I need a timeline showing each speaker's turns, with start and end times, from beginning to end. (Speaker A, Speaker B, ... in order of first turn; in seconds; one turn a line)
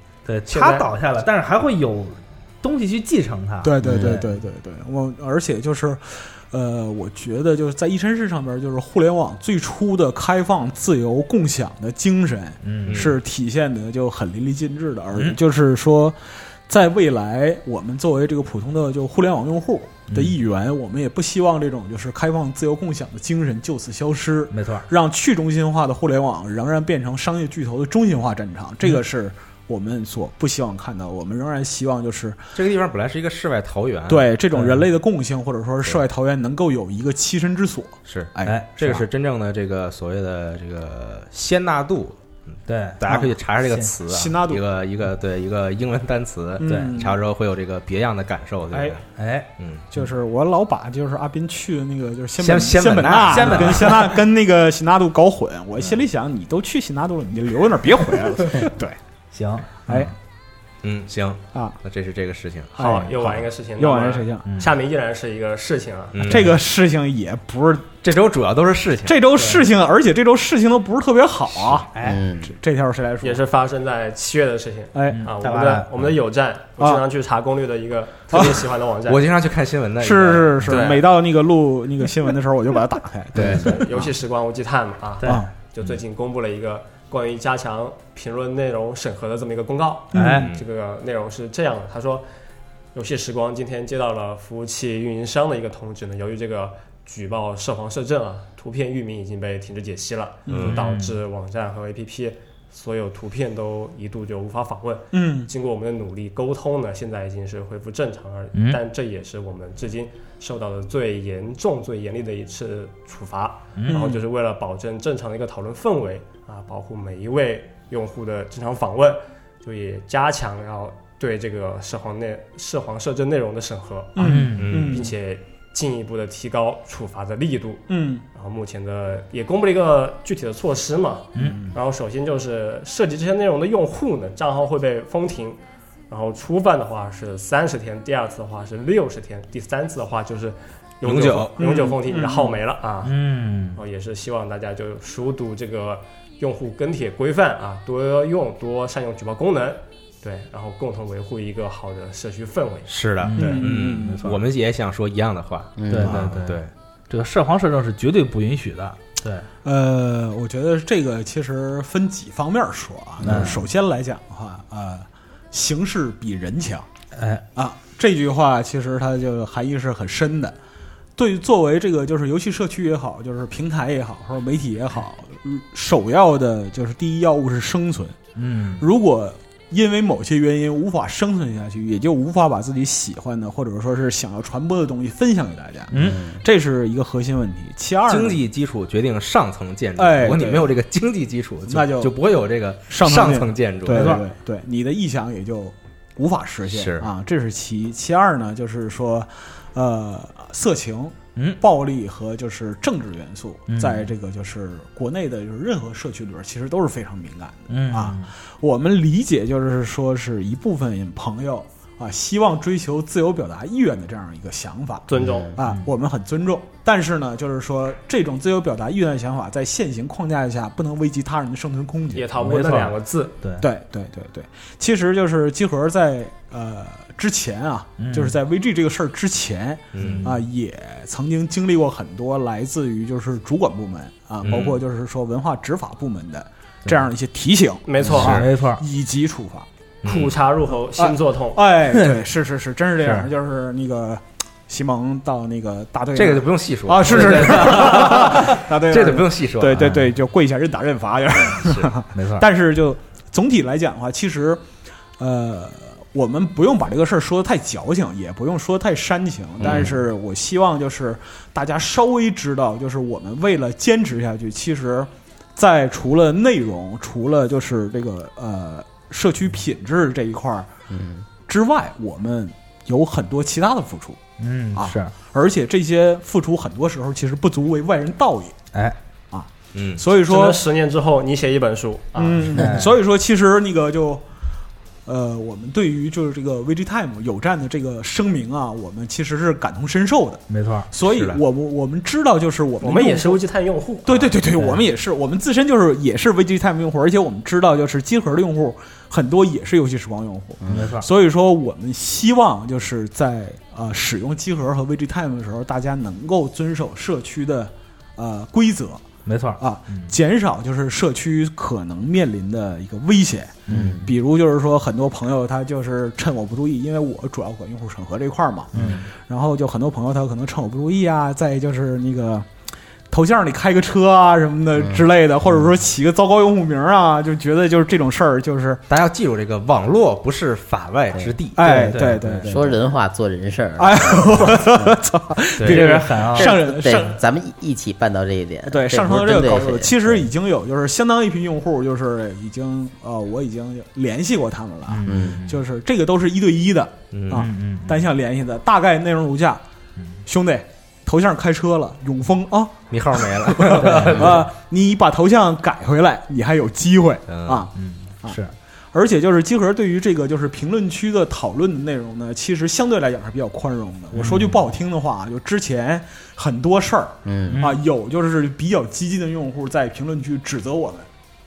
Speaker A: 0.2-4.3
Speaker B: 0.5-0.9
Speaker C: 3.6-32.4
Speaker D: 3.8-4.2
Speaker A: 12.6-13.0
Speaker E: 12.9-13.2
Speaker A: 20.1-20.4
Speaker A: 24.5-24.9
Speaker E: 32.5-34.3
Speaker C: 34.1-39.0
Speaker A: 34.5-34.8
Speaker E: 38.0-49.0
Speaker A: 38.4-38.7
Speaker A: 42.7-43.0
Speaker C: 43.0-43.3
Speaker A: 43.6-43.9
Speaker C: 44.0-44.6
Speaker C: 46.6-47.2
Speaker A: 46.6-46.9
Speaker C: 48.7-49.0
Speaker A: 49.2-49.5
Speaker E: 49.6-49.9
Speaker C: 49.9-59.0
Speaker E: 52.4-54.1
Speaker A: 53.3-54.1
Speaker A: 59.3-60.1
Speaker E: 60.8-62.8
Speaker C: 62.8-64.5
Speaker B: 62.8-66.4
Speaker A: 64.5-64.7
Speaker E: 66.1-66.5
Speaker C: 66.2-68.0
Speaker E: 68.0-69.2
Speaker C: 69.0-73.4
Speaker A: 69.3-69.7
Speaker A: 71.9-72.2
Speaker D: 72.0-72.5
Speaker B: 73.2-79.3
Speaker C: 74.9-75.2
Speaker A: 75.1-76.1
Speaker C: 76.8-77.0
Speaker C: 78.3-78.7
Speaker E: 79.1-80.8
Speaker C: 80.0-84.1
Speaker B: 80.7-81.0
Speaker E: 83.3-83.7
Speaker B: 83.4-92.2
Speaker A: 85.2-85.5
Speaker C: 90.1-90.5
Speaker A: 90.1-90.5
Speaker E: 90.4-90.6
Speaker B: 92.9-135.6
Speaker C: 100.5-100.7
Speaker E: 100.5-100.8
Speaker A: 100.6-101.1
Speaker C: 105.1-105.5
Speaker A: 108.5-108.8
Speaker A: 113.8-114.0
Speaker C: 113.9-114.2
Speaker C: 124.2-125.1
Speaker A: 124.2-124.9
Speaker E: 124.6-125.0
Speaker C: 127.9-128.2
Speaker A: 131.3-131.6
Speaker C: 131.4-131.7
Speaker B: 136.1-143.2
Speaker E: 141.0-141.6
Speaker C: 141.6-142.6
Speaker A: 143.0-143.8
Speaker B: 143.7-152.9
Speaker E: 152.9-156.7
Speaker A: 153.2-154.4
Speaker C: 153.4-154.2
Speaker D: 155.8-156.3
Speaker A: 155.9-159.5
Speaker C: 156.0-156.3
Speaker C: 159.6-166.9
Speaker A: 163.2-163.6
Speaker D: 163.3-163.5
Speaker A: 167.1-167.4
Speaker C: 167.5-170.6
Speaker C: 171.2-178.2
Speaker A: 178.3-178.8
Speaker C: 178.8-188.4
Speaker A: 185.9-186.2
Speaker D: 185.9-186.4
Speaker E: 188.1-194.2
Speaker C: 190.0-190.8
Speaker C: 191.7-192.2
Speaker C: 192.9-222.3
Speaker A: 193.9-194.2
Speaker E: 196.7-197.1
Speaker A: 201.3-201.6
Speaker A: 203.7-204.1
Speaker A: 207.7-208.3
Speaker B: 215.1-215.6
Speaker D: 215.2-215.5
Speaker B: 222.1-223.3
Speaker A: 222.4-223.7
Speaker C: 223.6-239.7
Speaker A: 228.0-228.3
Speaker E: 229.9-230.3
Speaker A: 230.0-230.4
Speaker E: 234.4-234.8
Speaker B: 237.8-238.4
Speaker E: 238.1-238.5
Speaker A: 238.2-238.8
Speaker E: 240.0-240.3
Speaker B: 240.0-241.7
Speaker C: 240.9-254.6
Speaker A: 243.0-243.3
Speaker E: 246.1-249.8
Speaker A: 247.1-248.1
Speaker A: 249.8-250.1
Speaker E: 251.6-251.9
Speaker A: 252.1-252.4
Speaker C: 255.2-270.7
Speaker E: 259.6-259.9
Speaker D: 270.9-271.2
Speaker C: 271.5-274.2
Speaker A: 274.4-275.1
Speaker C: 274.7-278.6
Speaker C: 279.3-280.6
Speaker E: 279.7-280.0
Speaker B: 280.2-282.6
Speaker C: 282.1-284.2
Speaker A: 282.5-282.9
Speaker C: 285.1-293.4
Speaker A: 290.5-290.9
Speaker E: 291.0-291.4
Speaker B: 292.8-294.3
Speaker C: 294.0-309.0
Speaker A: 294.5-294.8
Speaker D: 300.6-300.9
Speaker A: 300.7-301.1
Speaker A: 309.2-310.1
Speaker C: 309.6-322.5
Speaker A: 313.6-314.1
Speaker D: 313.7-314.1
Speaker A: 318.7-319.1
Speaker C: 323.1-328.8
Speaker D: 324.8-325.1
Speaker E: 328.9-331.7
Speaker C: 331.5-332.8
Speaker A: 331.6-332.5
Speaker D: 332.4-334.9
Speaker C: 333.8-337.2
Speaker E: 335.6-335.9
Speaker A: 335.6-336.5
Speaker D: 336.3-340.3
Speaker C: 338.6-349.6
Speaker A: 344.9-345.6
Speaker D: 345.1-345.4
Speaker E: 347.1-347.5
Speaker A: 347.3-348.0
Speaker C: 350.2-357.7
Speaker E: 352.9-354.5
Speaker E: 357.3-357.7
Speaker A: 357.7-358.5
Speaker C: 358.9-371.1
Speaker A: 364.1-364.6
Speaker D: 367.2-367.6
Speaker A: 367.5-367.8